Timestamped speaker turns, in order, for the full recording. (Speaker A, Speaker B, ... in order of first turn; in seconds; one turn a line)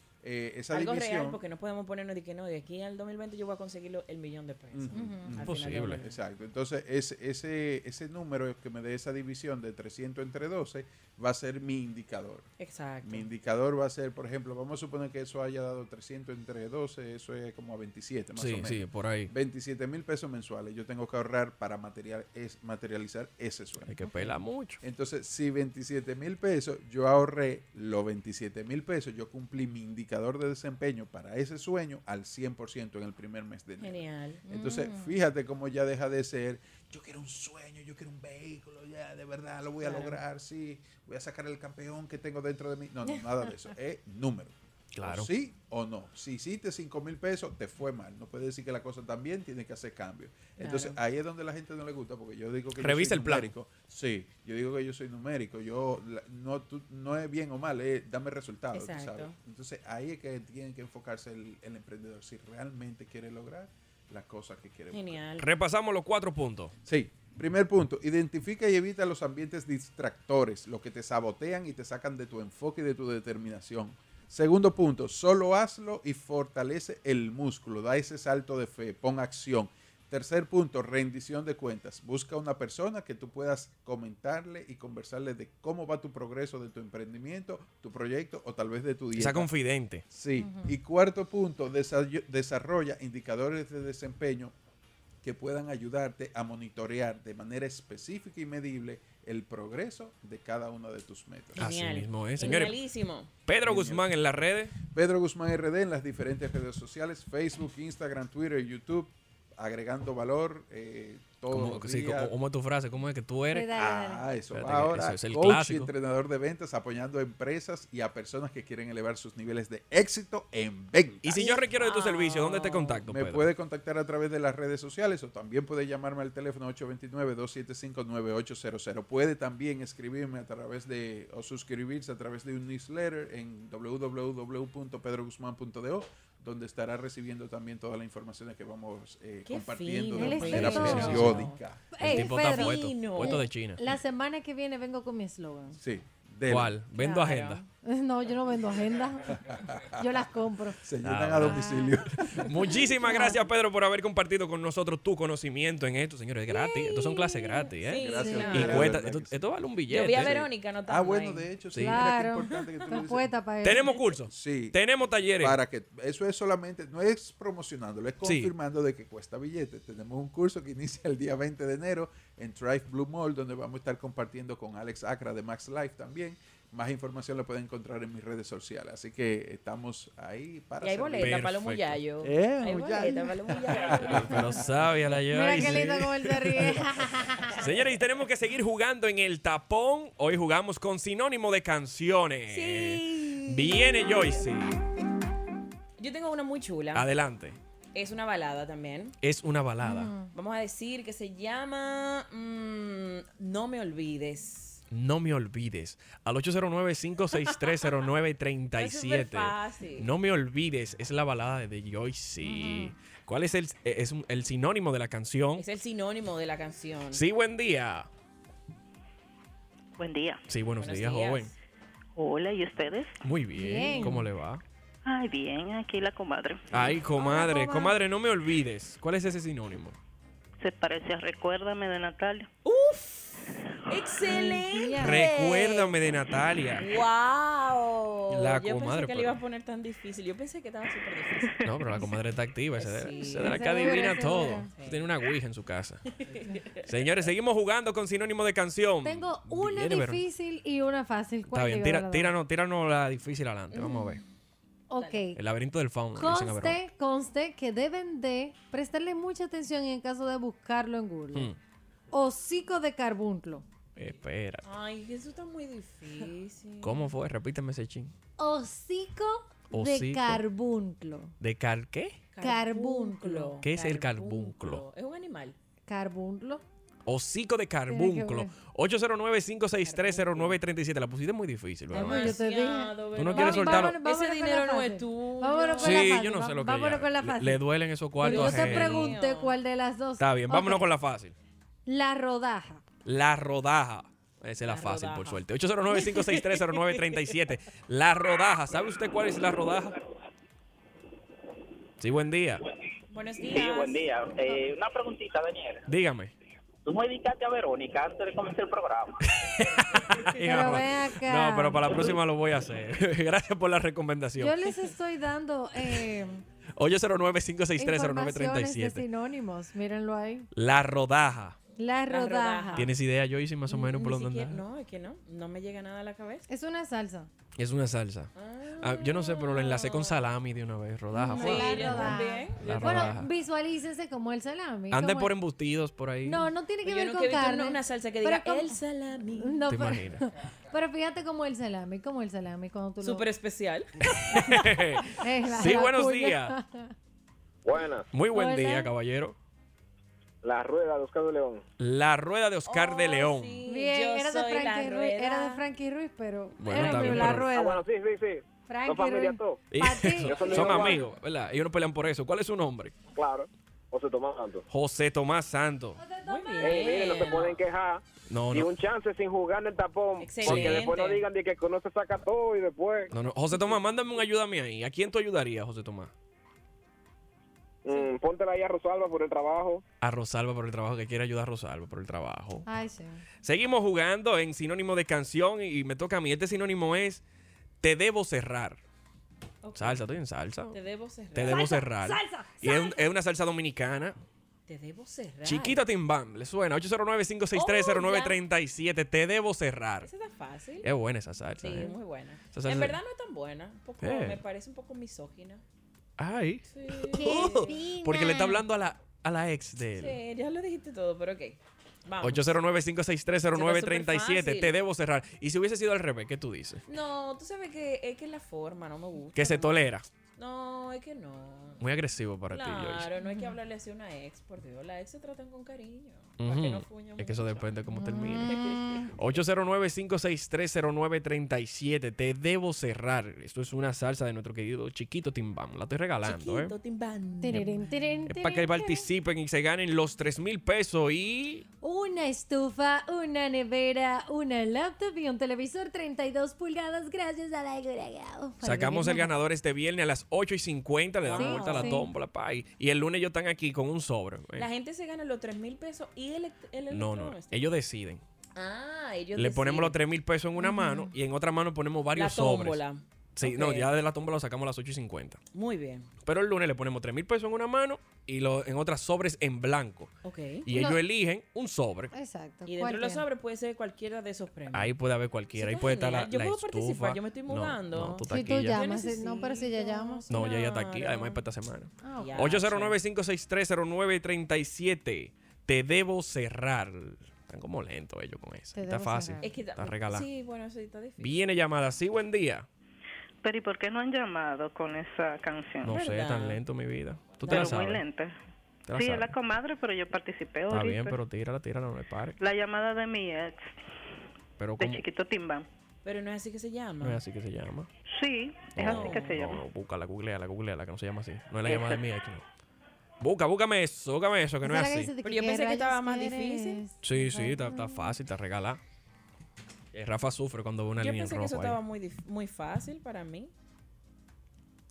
Speaker A: 0.2-1.4
Speaker B: 0.7-6.2
Speaker A: 4.7-12.5
Speaker C: 4.9-5.4
Speaker D: 5.4-6.0
Speaker B: 12.6-13.3
Speaker A: 13.0-24.1
Speaker D: 18.4-19.3
Speaker D: 23.9-24.8
Speaker A: 24.8-65.2
Speaker B: 33.8-34.5
Speaker C: 34.5-35.2
Speaker B: 39.8-40.2
Speaker D: 44.9-45.3
Speaker B: 50.6-51.0
Speaker D: 52.8-53.5
Speaker B: 58.7-59.4
Speaker B: 64.9-65.5
Speaker D: 65.4-66.7
Speaker A: 66.8-89.5
Speaker D: 89.2-90.0
Speaker A: 90.1-94.5
Speaker C: 90.4-90.8
Speaker A: 95.2-101.7
Speaker B: 101.5-103.3
Speaker D: 101.6-102.8
Speaker D: 103.5-104.8
Speaker A: 103.5-104.1
Speaker A: 104.8-112.3
Speaker D: 111.5-113.7
Speaker C: 113.5-114.2
Speaker A: 113.7-121.5
Speaker D: 114.5-115.9
Speaker D: 121.2-123.5
Speaker B: 121.8-122.8
Speaker A: 123.0-142.0
Speaker B: 139.5-141.6
Speaker C: 140.2-145.8
Speaker D: 140.9-141.4
Speaker D: 142.0-143.8
Speaker B: 142.3-143.4
Speaker A: 145.8-146.9
Speaker D: 146.5-147.6
Speaker B: 147.0-147.7
Speaker C: 147.8-149.4
Speaker A: 149.5-150.0
Speaker C: 150.0-150.8
Speaker A: 150.8-152.6
Speaker D: 151.0-160.4
Speaker C: 151.4-152.0
Speaker C: 153.0-153.4
Speaker C: 156.8-157.5
Speaker B: 157.7-158.8
Speaker A: 157.9-159.4
Speaker C: 158.1-158.7
Speaker B: 159.9-161.5
Speaker A: 160.1-163.4
Speaker D: 161.7-162.1
Speaker C: 161.8-164.0
Speaker D: 163.6-165.6
Speaker A: 164.2-164.8
Speaker A: 165.4-181.5
Speaker D: 168.2-168.5
Speaker B: 180.8-184.4
Speaker D: 181.2-182.0
Speaker A: 182.2-184.7
Speaker D: 184.0-186.8
Speaker C: 185.3-187.6
Speaker D: 187.6-194.8
Speaker B: 192.5-194.4
Speaker B: 196.0-197.1
Speaker D: 196.9-197.6
Speaker B: 197.9-199.2
Speaker D: 199.2-200.1
Speaker C: 199.8-200.3
Speaker B: 200.3-204.8
Speaker D: 204.9-215.7
Speaker B: 207.3-207.9
Speaker B: 208.7-210.1
Speaker C: 212.4-212.9
Speaker B: 215.6-217.2
Speaker D: 217.1-218.1
Speaker E: 220.0-220.4
Speaker D: 220.5-221.5
Speaker B: 220.7-221.5
Speaker E: 222.2-223.2
Speaker D: 223.2-224.6
Speaker C: 223.6-224.3
Speaker E: 225.1-226.7
Speaker D: 226.7-230.0
Speaker C: 227.2-227.9
Speaker E: 230.6-232.5
Speaker B: 232.7-233.4
Speaker B: 233.9-236.0
Speaker C: 234.2-235.3
Speaker D: 235.0-237.0
Speaker B: 236.8-242.0
Speaker D: 238.3-239.4
Speaker D: 241.6-246.0
Speaker B: 242.8-244.0
Speaker C: 243.4-244.7
Speaker B: 244.7-245.1
Speaker B: 246.2-246.9
Speaker D: 246.8-250.2
Speaker C: 249.0-252.3
Speaker D: 251.5-254.2
Speaker B: 253.7-254.2
Speaker C: 254.9-255.4
Speaker B: 255.0-255.2
Speaker D: 255.3-256.8
Speaker C: 256.2-261.5
Speaker C: 262.1-263.6
Speaker D: 264.0-264.7
Speaker B: 264.6-267.1
Speaker D: 266.8-268.1
Speaker C: 268.4-271.4
Speaker D: 269.7-270.4
Speaker D: 271.4-272.3
Speaker B: 272.3-275.6
Speaker C: 272.4-273.5
Speaker D: 273.6-274.9
Speaker C: 275.9-276.6
Speaker D: 277.1-282.4
Speaker C: 277.9-278.5
Speaker B: 279.8-280.6
Speaker C: 281.9-287.6
Speaker B: 281.9-286.2
Speaker D: 283.1-284.0
Speaker D: 285.8-289.2
Speaker B: 288.2-289.6
Speaker C: 288.2-290.9
Speaker D: 290.2-291.4
Speaker C: 291.9-292.8
Speaker D: 293.1-300.0
Speaker B: 294.6-297.4
Speaker D: 302.0-302.6
Speaker B: 303.1-304.6
Speaker F: 303.5-305.9
Speaker D: 305.9-306.3
Speaker F: 306.9-309.2
Speaker D: 309.2-314.7
Speaker C: 310.4-312.1
Speaker C: 314.4-316.4
Speaker D: 316.8-319.1
Speaker C: 317.8-320.5
Speaker D: 320.5-321.6
Speaker C: 321.8-322.9
Speaker B: 322.1-322.9
Speaker D: 322.8-324.6
Speaker B: 323.7-326.5
Speaker C: 326.5-327.3
Speaker D: 327.6-333.3
Speaker B: 328.4-330.3
Speaker C: 331.1-335.3
Speaker B: 331.3-333.1
Speaker D: 334.9-336.5
Speaker C: 336.2-338.8
Speaker B: 336.8-339.6
Speaker C: 339.4-343.3
Speaker D: 339.7-340.3
Speaker B: 343.0-343.9
Speaker D: 344.1-346.6
Speaker C: 345.1-346.9
Speaker G: 347.6-348.1
Speaker D: 348.1-349.4
Speaker C: 348.3-348.9
Speaker G: 350.4-351.6
Speaker D: 351.8-353.6
Speaker B: 352.7-355.6
Speaker C: 353.7-357.8
Speaker D: 356.6-357.5
Speaker G: 357.1-359.6
Speaker C: 358.7-361.0
Speaker D: 359.7-362.9
Speaker G: 360.2-361.0
Speaker G: 363.1-364.6
Speaker D: 364.7-366.0
Speaker C: 366.0-366.9
Speaker B: 366.2-367.6
Speaker G: 366.6-373.1
Speaker D: 368.3-368.7
Speaker B: 370.2-371.2
Speaker D: 370.4-370.9
Speaker D: 373.1-376.1
Speaker G: 377.8-379.8
Speaker D: 380.0-382.7
Speaker C: 382.6-383.2
Speaker D: 383.4-387.2
Speaker D: 387.8-388.8
Speaker B: 389.6-390.0
Speaker D: 389.7-390.8
Speaker B: 390.7-391.9
Speaker D: 391.3-394.2
Speaker C: 391.5-392.9
Speaker B: 394.7-395.8
Speaker D: 395.4-400.1
Speaker B: 397.5-398.4
Speaker B: 400.0-400.9
Speaker D: 400.8-403.0
Speaker B: 401.6-405.6
Speaker D: 404.0-404.4
Speaker D: 406.2-410.2
Speaker B: 406.7-407.8
Speaker C: 407.1-408.6
Speaker B: 410.0-412.6
Speaker D: 412.2-416.8
Speaker B: 413.5-414.8
Speaker B: 416.9-421.8
Speaker D: 419.3-420.1
Speaker D: 421.8-423.1
Speaker B: 422.5-427.7
Speaker C: 423.2-423.5
Speaker D: 426.4-436.8
Speaker C: 427.9-429.1
Speaker B: 428.5-428.8
Speaker B: 436.2-437.9
Speaker C: 437.4-439.0
Speaker D: 438.3-441.6
Speaker C: 441.8-449.3
Speaker D: 448.6-454.7
Speaker B: 451.2-452.0
Speaker C: 451.3-452.1
Speaker B: 454.6-457.7
Speaker D: 456.9-458.2
Speaker B: 458.6-460.0
Speaker D: 459.4-462.8
Speaker C: 460.6-461.1
Speaker B: 462.1-463.9
Speaker D: 463.4-465.4
Speaker B: 465.5-466.1
Speaker D: 466.2-470.1
Speaker B: 470.2-470.7
Speaker D: 470.6-472.1
Speaker C: 470.7-471.0
Speaker C: 472.1-473.2
Speaker B: 472.7-475.0
Speaker D: 474.7-478.8
Speaker B: 475.5-481.4
Speaker C: 478.3-480.3
Speaker D: 480.3-490.3
Speaker C: 482.0-482.5
Speaker B: 482.1-483.0
Speaker C: 488.7-489.5
Speaker B: 489.4-491.4
Speaker D: 491.2-492.7
Speaker E: 493.4-496.0
Speaker D: 495.8-498.0
Speaker B: 495.9-496.6
Speaker B: 497.4-497.8
Speaker E: 497.5-498.4
Speaker D: 498.9-499.3
Speaker E: 498.9-501.2
Speaker D: 500.7-502.4
Speaker E: 502.4-503.7
Speaker D: 504.6-505.0
Speaker E: 504.8-505.7
Speaker B: 506.0-507.2
Speaker D: 507.0-507.9
Speaker E: 508.1-509.6
Speaker D: 508.7-512.4
Speaker B: 508.8-509.5
Speaker B: 511.7-512.0
Speaker D: 513.2-515.1
Speaker C: 514.6-518.1
Speaker B: 515.2-516.9
Speaker D: 517.0-518.8
Speaker D: 519.9-521.8
Speaker B: 521.0-523.5